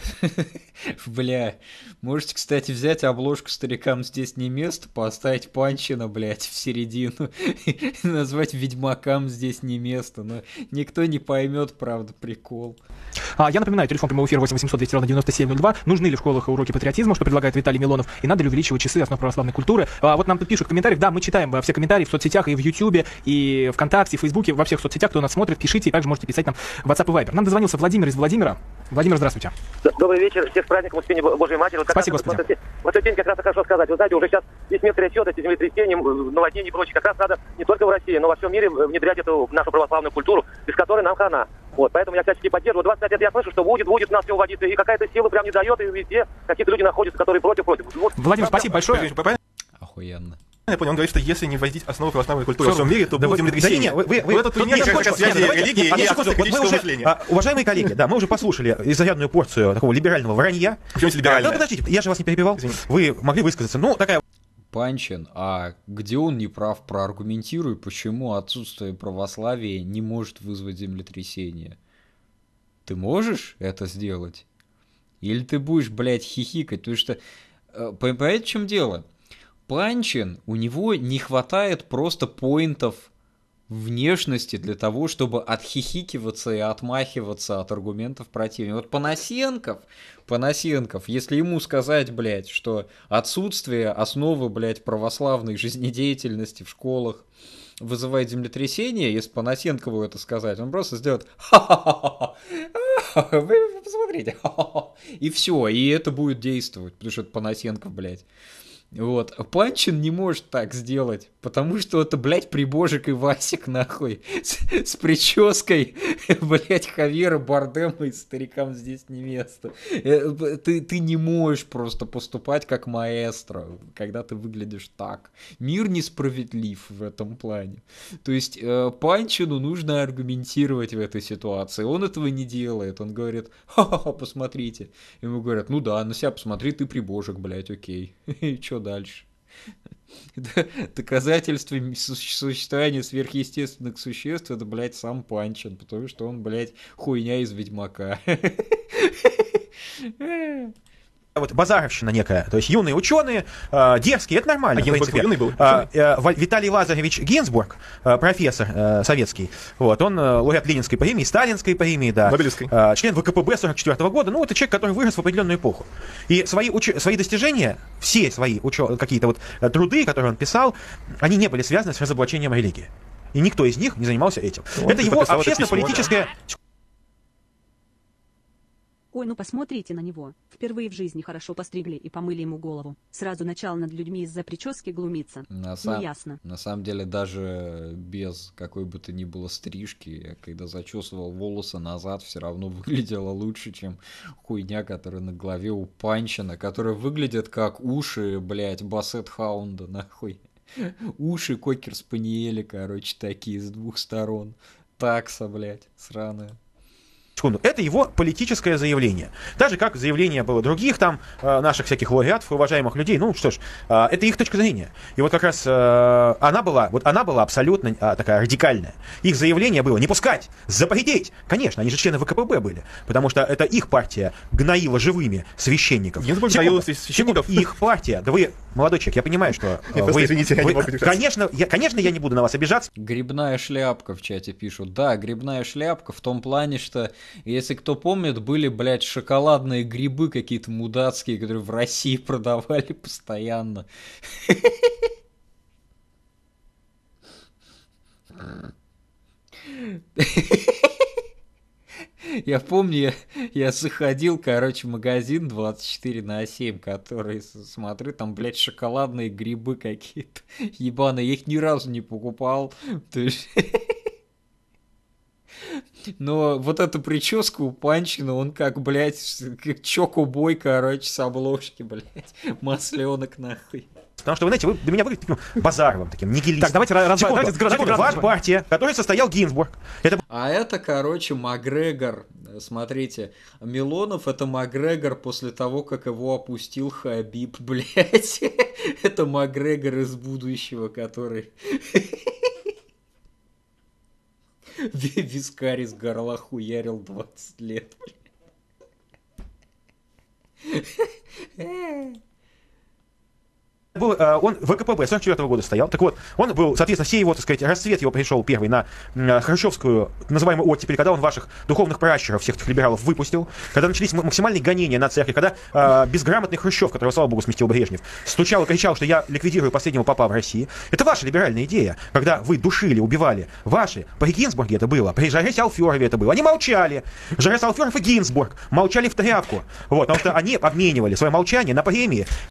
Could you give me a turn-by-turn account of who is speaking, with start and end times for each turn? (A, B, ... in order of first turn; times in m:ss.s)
0:00.2-0:12.8 A
0:13.4-0:29.5 B
0:29.8-0:48.6 C
0:31.9-0:32.4 B
0:48.2-0:49.1 B
0:48.4-0:49.4 D
0:49.8-0:50.4 A
0:50.7-0:57.2 D
0:52.6-1:04.2 E
0:52.6-0:53.3 B
0:54.5-0:55.8 B
1:01.0-1:01.7 D
1:04.7-1:11.8 A
1:12.8-1:14.4 A
1:15.2-1:17.2 A
1:17.7-1:19.1 A
1:19.7-1:23.1 A
1:23.7-1:37.3 A
1:37.8-1:48.2 A
1:48.9-2:19.3 A
2:20.4-2:30.7 A
2:31.4-2:56.3 E
2:34.8-2:35.9 D
2:42.2-2:42.7 D
2:54.8-2:56.2 D
2:59.1-3:06.4 F
3:05.5-3:26.6 A
3:27.4-3:52.9 E
3:46.2-3:47.7 D
3:49.9-3:51.2 D
3:53.0-4:04.9 A
4:09.7-4:11.0 A
4:12.2-4:24.0 A
4:25.7-4:33.8 A
4:34.2-4:40.2 E
4:36.6-4:38.3 B
4:40.3-4:52.3 A
4:54.8-4:58.1 A
5:00.6-5:01.1 A
5:01.6-5:02.1 A
5:03.9-5:32.3 E